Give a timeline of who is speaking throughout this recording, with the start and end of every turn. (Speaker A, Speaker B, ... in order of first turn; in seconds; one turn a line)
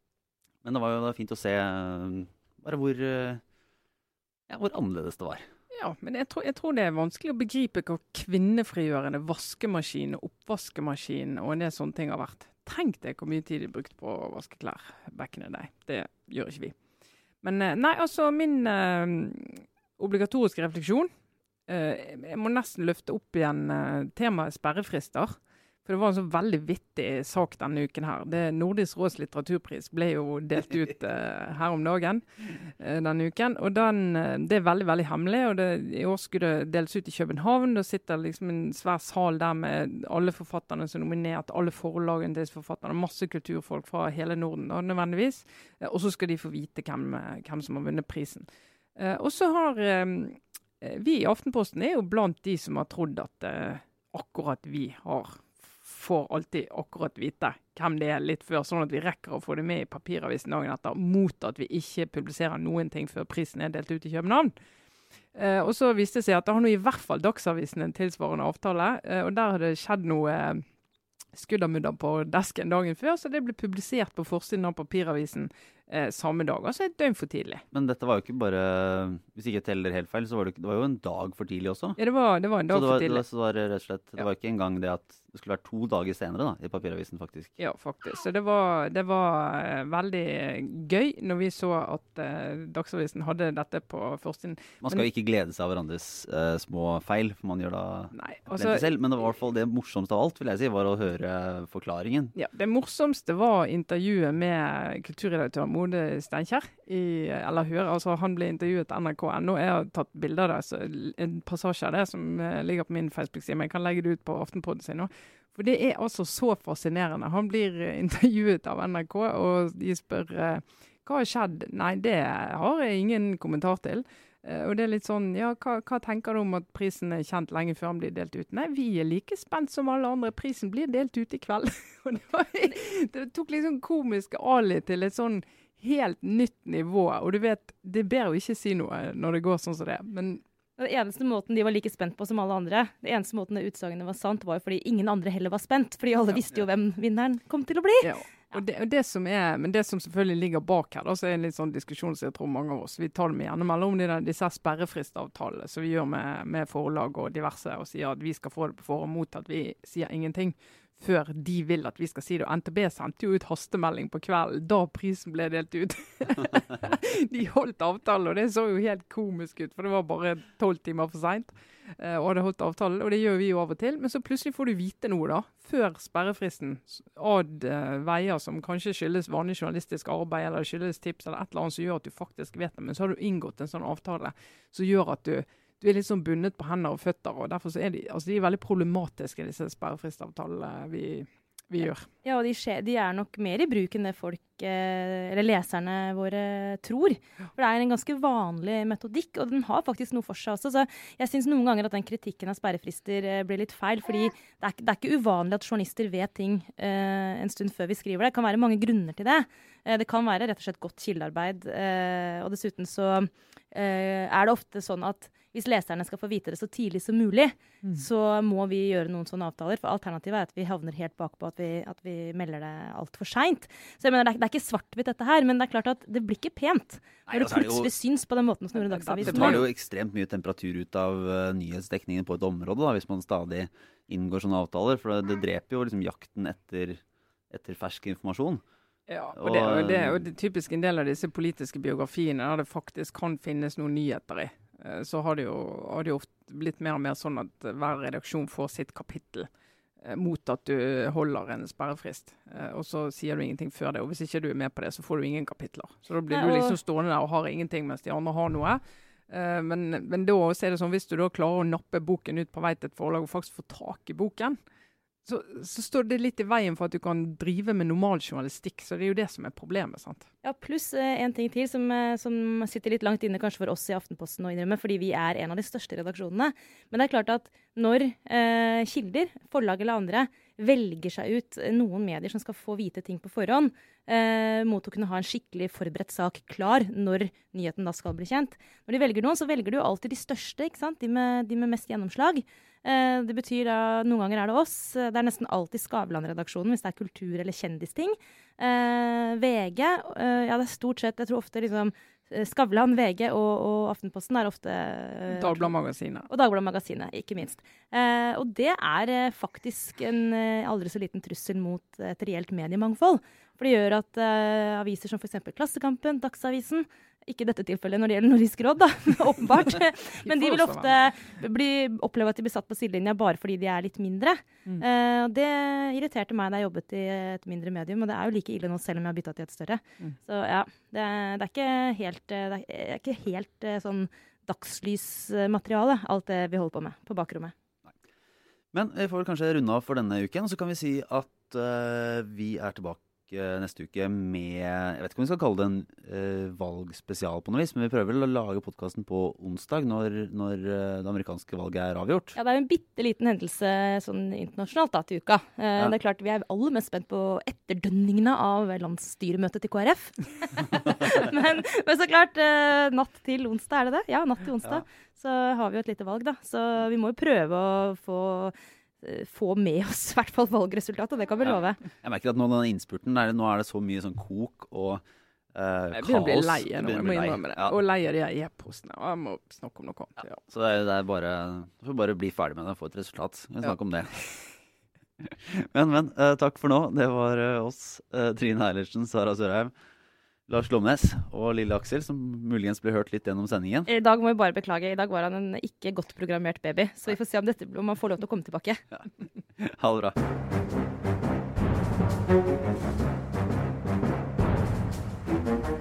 Speaker A: 0.6-3.4
Speaker A: 4.5-5.5
Speaker B: 5.7-16.8
Speaker B: 17.4-21.1
Speaker B: 21.7-32.2
Speaker B: 32.8-64.5
Speaker B: 65.3-70.6
Speaker B: 71.3-77.6
Speaker A: 77.7-82.0
Speaker B: 82.0-83.2
Speaker A: 82.7-87.5
Speaker B: 87.6-95.0
Speaker A: 94.8-102.3
Speaker B: 98.1-98.9
Speaker B: 102.3-140.4
Speaker C: 140.8-148.6
Speaker B: 148.0-192.1
Speaker C: 192.2-229.6
Speaker A: 227.3-227.9
Speaker B: 228.9-229.7
Speaker A: 229.2-238.6
Speaker B: 239.1-249.5
Speaker A: 239.3-240.2
Speaker B: 250.0-264.6
Speaker C: 256.3-256.8
Speaker B: 265.2-270.3
Speaker C: 270.4-305.7
Speaker B: 305.3-306.3
Speaker C: 306.3-337.5
Speaker B: 320.2-321.0
Speaker A: 338.7-352.3
Speaker C: 352.3-371.8
Speaker A: 372.0-375.0
Speaker A: 375.5-377.8
Speaker B: 375.9-380.4
Speaker A: 380.4-384.2
Speaker A: 385.2-389.7
Speaker A: 390.5-393.9
Speaker C: 393.9-398.8
Speaker A: 399.6-400.1